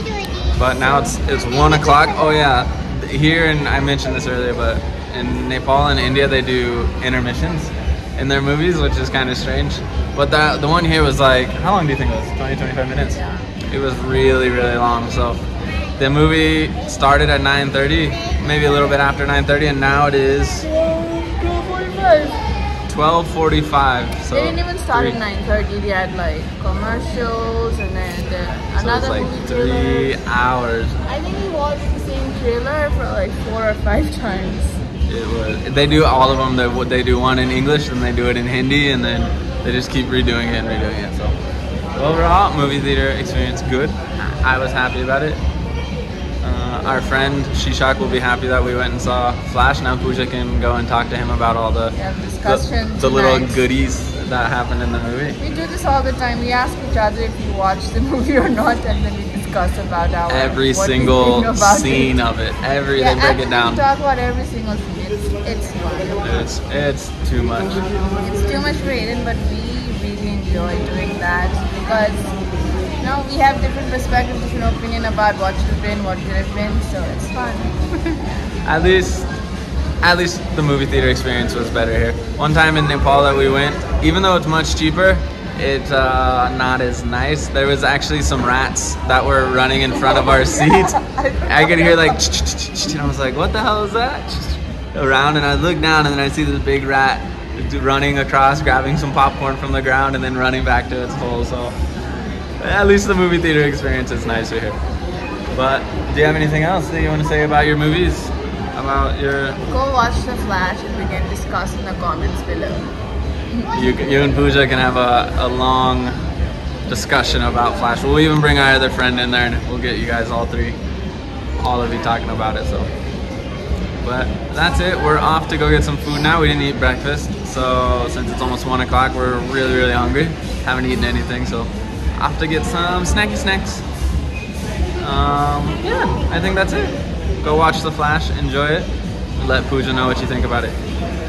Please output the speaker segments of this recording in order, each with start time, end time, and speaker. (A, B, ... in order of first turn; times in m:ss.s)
0:00.6-0:15.4 A
0:13.2-0:13.5 B
0:16.0-0:20.7 A
0:20.7-0:22.4 B
0:22.9-0:25.2 A
0:24.3-0:30.2 B
0:28.8-0:31.0 A
0:31.0-0:34.8 B
0:35.1-0:41.4 A
0:42.0-0:45.4 A
0:46.4-0:55.4 A
0:51.9-0:53.6 B
0:55.4-1:02.2 B
1:00.3-1:03.8 A
1:03.0-1:06.2 B
1:06.2-1:07.8 A
1:08.2-1:12.3 B
1:13.0-1:17.8 B
1:18.1-1:19.3 A
1:20.0-1:41.8 A
1:30.1-1:32.1 B
1:42.6-1:44.8 A
1:45.5-1:49.6 A
1:49.7-1:52.9 B
1:53.7-1:56.2 A
1:56.9-2:00.8 A
2:01.6-2:02.9 A
2:04.0-2:13.8 A
2:15.0-2:20.8 A